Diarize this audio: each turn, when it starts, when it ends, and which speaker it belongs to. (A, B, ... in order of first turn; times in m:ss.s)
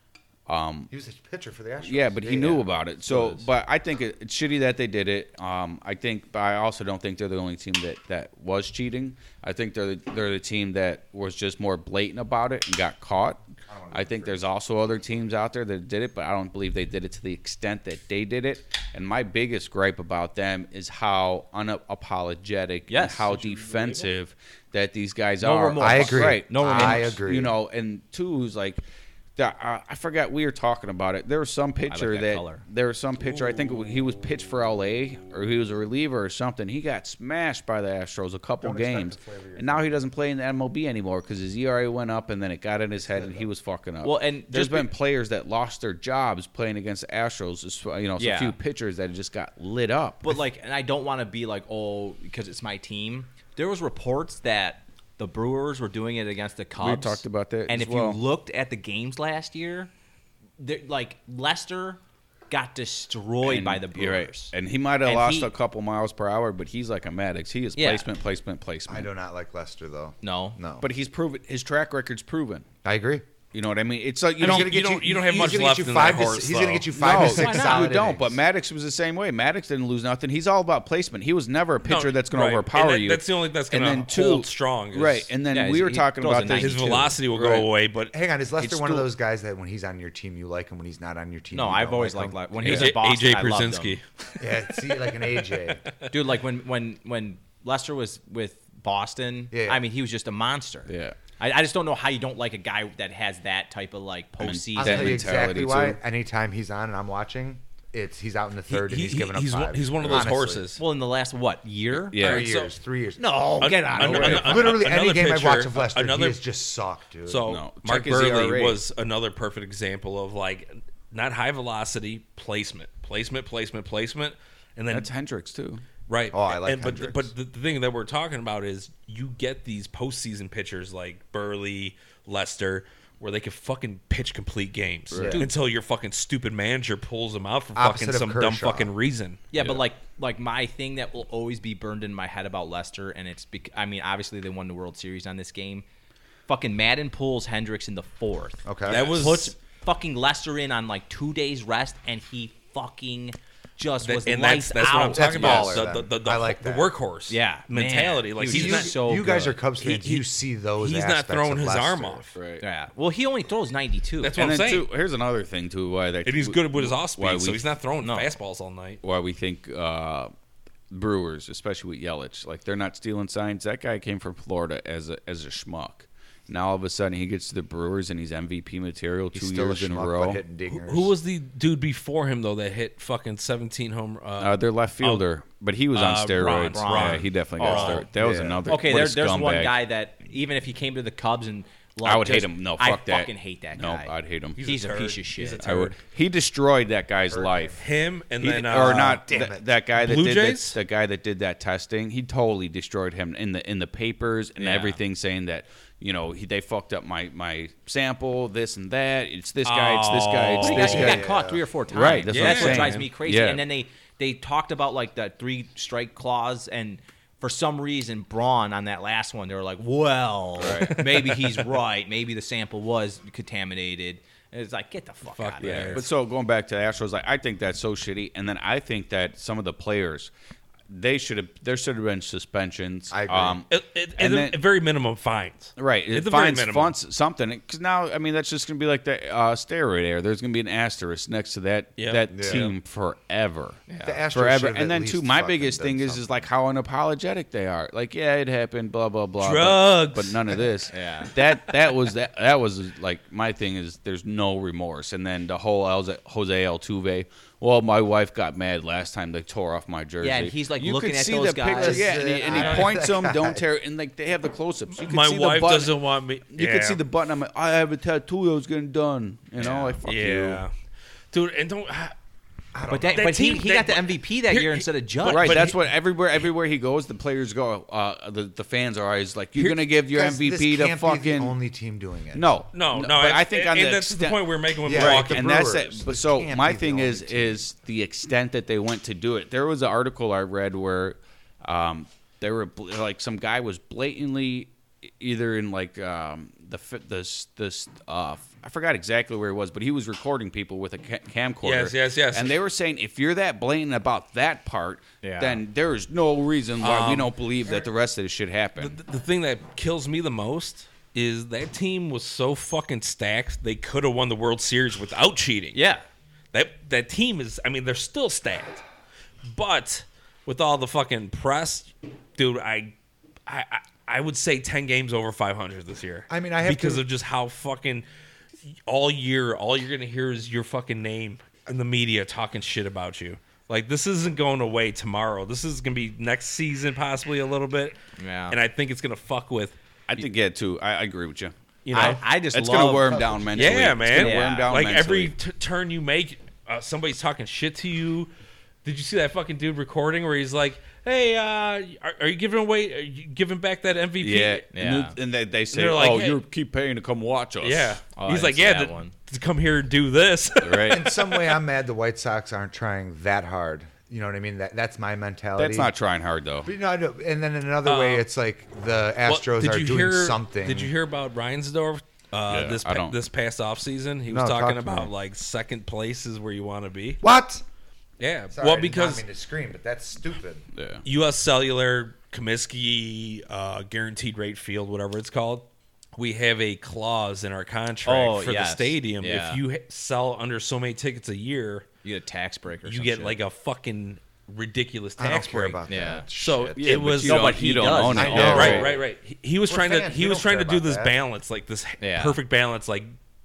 0:00.5-0:00.9 A
0:00.9-0:03.2 B
0:01.8-0:28.8 A
0:03.1-0:03.3 C
0:13.7-0:14.4 B
0:22.9-0:23.3 C
0:23.4-0:24.0 D
0:25.4-0:27.2 C
0:25.8-0:27.5 B
0:29.4-0:50.3 A
0:31.9-0:32.6 C
0:38.6-0:39.9 B
0:43.0-0:43.5 B
0:44.0-0:44.9 C
0:48.2-0:48.6 C
0:50.2-0:59.9 C
0:56.8-0:58.2 A
1:00.6-1:05.5 C
1:03.4-1:09.1 A
1:07.8-1:08.1 C
1:08.9-1:10.8 B
1:10.2-1:10.6 C
1:10.8-1:12.7 A
1:12.8-1:13.2 B
1:13.5-1:14.8 A
1:14.4-1:18.4 B
1:14.4-1:16.9 D
1:16.9-1:27.7 A
1:17.1-1:18.0 C
1:21.8-1:25.3 D
1:25.5-1:27.0 C
1:26.4-1:28.1 D
1:28.1-1:32.5 B
1:28.6-1:29.1 A
1:31.5-1:34.0 C
1:32.6-1:34.0 D
1:32.6-1:32.9 A
1:34.4-1:35.8 B
1:36.1-1:45.3 C
1:39.5-1:39.8 B
1:40.8-1:41.2 A
1:44.4-1:46.0 A
1:44.8-1:50.7 B
1:48.7-1:50.8 D
1:50.8-1:52.2 C
1:51.9-1:52.5 A
1:52.2-1:52.7 D
1:52.2-1:57.5 B
1:53.2-1:54.8 C
1:53.6-1:56.4 D
1:57.2-2:05.1 D
1:57.5-1:58.8 A
2:04.9-2:05.8 A
2:06.1-2:19.4 D
2:06.3-2:07.3 B
2:15.1-2:15.4 A
2:15.1-2:15.4 B
2:17.7-2:18.9 B
2:19.5-2:25.8 C
2:19.6-2:19.8 A
2:26.5-2:35.9 C
2:28.6-2:29.0 B
2:28.9-2:29.5 D
2:34.0-2:39.2 D
2:34.9-2:36.9 B
2:37.3-2:39.6 C
2:38.4-2:42.2 B
2:39.8-2:40.2 D
2:40.8-2:42.4 D
2:42.3-2:42.6 A
2:42.6-2:44.4 C
2:44.2-2:44.9 D
2:44.4-2:47.6 A
2:46.2-2:49.0 D
2:48.0-2:48.4 C
2:49.0-2:50.3 A
2:50.9-3:00.4 A
2:59.3-3:01.2 B
3:00.7-3:05.2 D
3:04.4-3:09.8 A
3:05.9-3:08.0 D
3:06.4-3:08.1 C
3:08.1-3:08.6 B
3:08.7-3:15.7 C
3:12.0-3:14.6 A
3:14.6-3:16.0 D
3:15.6-3:17.8 A
3:17.3-3:17.8 B
3:17.8-3:19.3 D
3:18.4-3:31.3 A
3:18.8-3:19.7 B
3:19.9-3:20.8 D
3:24.6-3:25.0 C
3:29.6-3:31.2 D
3:30.6-3:46.0 C
3:30.8-3:31.7 B
3:31.9-3:33.6 A
3:32.3-3:33.1 D
3:40.6-3:41.0 A
3:40.7-3:41.7 D
3:45.2-3:46.1 D
3:45.6-3:50.3 A
3:50.9-3:54.6 A
3:53.1-3:53.6 B
3:53.7-3:56.9 D
3:55.8-4:03.8 A
4:02.0-4:02.7 D
4:02.3-4:02.7 B
4:03.9-4:04.2 C
4:04.0-4:06.5 B
4:04.3-4:25.9 A
4:09.4-4:10.6 D
4:10.9-4:11.3 C
4:20.2-4:22.9 C
4:21.7-4:23.6 B
4:25.0-4:27.0 D
4:26.5-4:30.6 A
4:29.6-4:30.0 C
4:30.0-4:30.7 D
4:31.3-4:32.1 D
4:32.7-4:33.3 B
4:32.9-4:35.8 C
4:33.1-4:35.7 D
4:35.2-4:41.6 A
4:39.6-4:39.8 D
4:40.0-4:42.6 B
4:42.3-5:09.0 A
4:42.7-4:45.5 D
4:44.8-4:47.6 B
5:01.6-5:02.6 D
5:05.2-5:05.6 C
5:06.8-5:07.3 D
5:08.8-5:15.8 D
5:15.7-5:16.0 C
5:16.5-5:18.8 D
5:19.5-5:22.9 D
5:23.4-5:28.0 D
5:26.3-5:27.0 B
5:28.7-5:38.0 D
5:38.2-5:38.6 C
5:38.5-5:39.8 D
5:40.1-5:45.3 A
5:41.8-5:42.2 D
5:41.9-5:43.3 C
5:43.1-5:43.8 B
5:43.5-5:48.3 D
5:43.8-5:44.7 C
5:48.8-5:54.6 D
5:54.2-5:58.0 A
5:54.7-5:55.2 C
5:55.7-5:56.4 D
5:57.6-6:01.6 D
5:58.1-5:59.1 C
6:00.6-6:01.0 A
6:00.9-6:05.9 B
6:05.6-6:06.7 A
6:06.6-6:10.9 B
6:07.8-6:08.3 D
6:09.2-6:17.2 D
6:12.5-6:13.2 A
6:14.3-6:15.1 B
6:17.2-6:17.6 B
6:18.2-6:19.2 D
6:18.5-6:20.6 B
6:20.7-6:21.0 A
6:21.0-6:31.9 D
6:28.0-6:29.6 C
6:32.0-6:33.4 C
6:32.8-6:43.1 D
6:35.2-6:37.1 B
6:35.9-6:36.2 C
6:36.8-6:39.0 A
6:37.2-6:38.9 C
6:38.0-6:39.0 B
6:39.7-6:41.1 B
6:42.0-6:42.4 C